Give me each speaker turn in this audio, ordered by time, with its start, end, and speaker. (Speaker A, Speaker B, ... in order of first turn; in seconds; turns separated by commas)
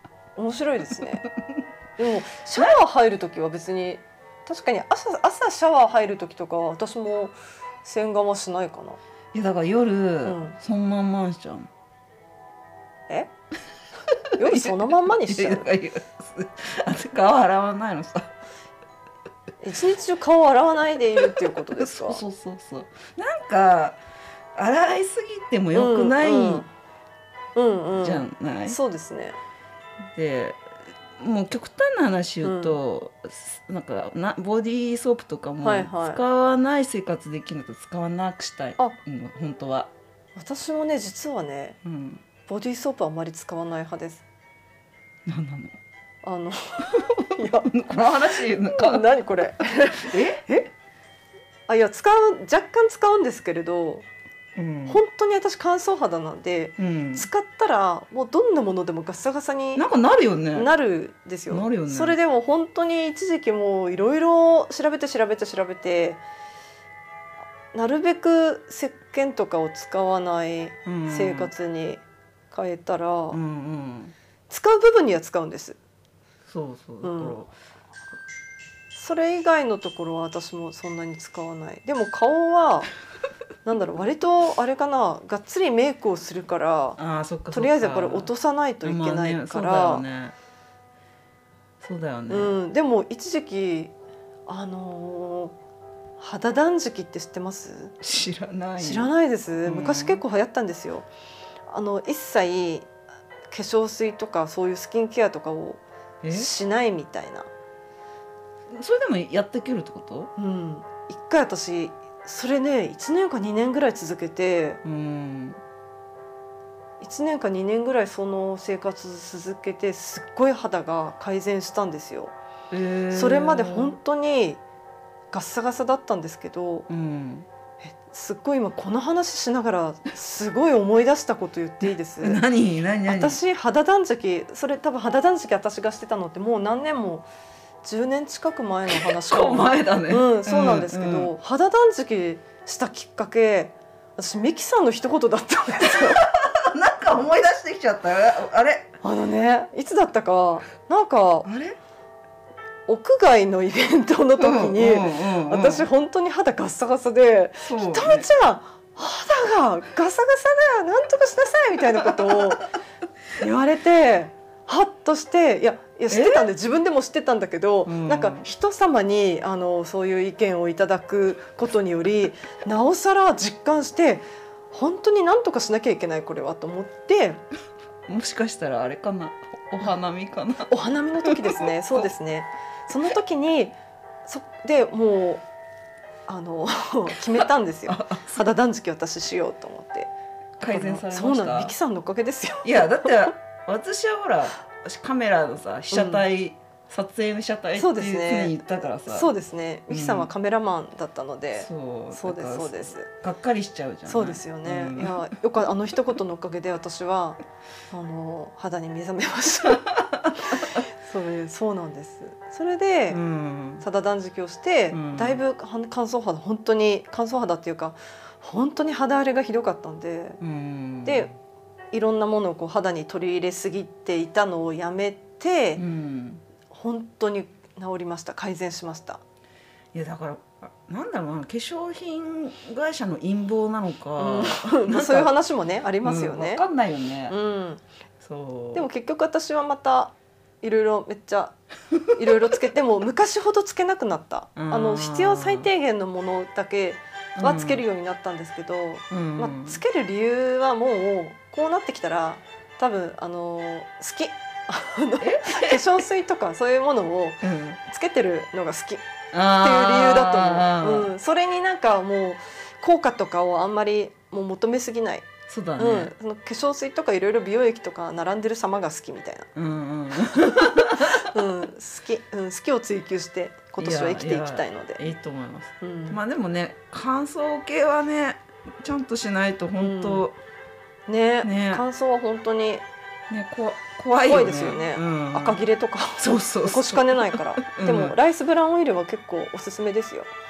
Speaker A: 0.3-1.2, Speaker B: 1.0-1.6, Speaker A: 2.0-9.0, Speaker B: 9.3-11.7, Speaker A: 10.2-10.6, Speaker A: 14.4-15.7, Speaker B: 14.4-18.3, Speaker A: 19.6-22.2, Speaker B: 21.4-24.0, Speaker B: 24.5-26.7, Speaker A: 25.7-26.7, Speaker A: 27.5-29.4, Speaker B: 27.9-28.8, Speaker B: 30.1-39.9, Speaker A: 32.4-32.8, Speaker A: 35.6-36.2, Speaker A: 40.4-41.8, Speaker B: 41.8-42.2, Speaker A: 42.5-44.2, Speaker B: 45.3-45.8, Speaker A: 46.2-47.7, Speaker B: 46.9-49.1, Speaker A: 48.5-50.7, Speaker B: 50.0-50.5, Speaker A: 51.7-54.0, Speaker B: 54.5-55.0, Speaker A: 54.9-59.8, Speaker B: 56.8-57.3, Speaker B: 59.7-60.7, Speaker A: 60.5-66.2, Speaker B: 61.5-62.2, Speaker A: 67.7-73.4, Speaker B: 70.8-71.5, Speaker B: 73.3-74.1, Speaker A: 74.5-75.8, Speaker B: 76.5-77.5, Speaker A: 77.0-77.4, Speaker A: 78.9-82.9, Speaker A: 83.7-87.0, Speaker B: 87.0-88.3, Speaker A: 87.5-90.0, Speaker B: 88.8-90.3, Speaker B: 91.8-92.6, Speaker A: 92.3-93.9, Speaker A: 94.5-95.5, Speaker A: 96.2-98.0, Speaker B: 98.0-99.1, Speaker A: 98.8-101.1, Speaker B: 99.7-100.2, Speaker A: 101.7-102.9, Speaker A: 103.5-107.5, Speaker B: 106.2-106.5, Speaker B: 108.7-110.3, Speaker A: 110.3-114.8, Speaker B: 114.8-115.6, Speaker A: 117.0-122.3, Speaker B: 122.7-124.0, Speaker A: 123.1-124.6, Speaker A: 125.3-126.9, Speaker B: 126.9-127.5, Speaker A: 127.8-132.4, Speaker B: 132.2-133.4, Speaker A: 133.1-137.3, Speaker A: 137.8-146.3, Speaker B: 138.9-141.3, Speaker B: 145.8-148.9, Speaker A: 149.0-151.5, Speaker B: 151.4-151.8, Speaker A: 152.9-162.7, Speaker B: 154.4-155.9, Speaker B: 157.6-158.3, Speaker B: 162.0-162.6, Speaker A: 163.3-177.4, Speaker B: 166.1-166.5, Speaker B: 167.8-168.5, Speaker B: 178.1-180.7, Speaker A: 180.7-185.4, Speaker B: 181.2-182.1, Speaker A: 186.3-193.3, Speaker B: 187.4-188.5, Speaker B: 190.6-191.7, Speaker B: 192.6-199.3, Speaker A: 195.9-196.2, Speaker A: 197.8-203.1, Speaker B: 199.9-200.3, Speaker B: 201.6-205.3, Speaker A: 204.1-213.2, Speaker B: 209.7-210.8, Speaker B: 213.1-213.8, Speaker A: 213.8-220.4, Speaker B: 214.9-215.4, Speaker B: 220.4-221.3, Speaker A: 221.0-221.3, Speaker A: 221.9-225.8, Speaker B: 225.8-226.4, Speaker A: 226.7-229.2, Speaker B: 229.9-235.3, Speaker A: 234.2-236.6, Speaker B: 236.0-237.3, Speaker A: 237.3-237.8, Speaker B: 238.2-238.9, Speaker A: 238.7-241.6, Speaker A: 242.1-259.0, Speaker B: 244.6-245.7, Speaker B: 247.4-247.8, Speaker B: 249.1-249.8, Speaker B: 255.2-255.9, Speaker B: 257.4-257.8, Speaker B: 259.3-261.1, Speaker A: 259.5-269.5, Speaker B: 265.5-266.1, Speaker B: 269.6-271.3, Speaker A: 270.2-275.1, Speaker B: 273.8-280.4, Speaker A: 275.8-276.2, Speaker A: 279.8-280.2, Speaker A: 281.1-282.8, Speaker B: 281.4-281.8, Speaker B: 283.3-285.6, Speaker A: 284.2-290.3, Speaker B: 286.2-288.1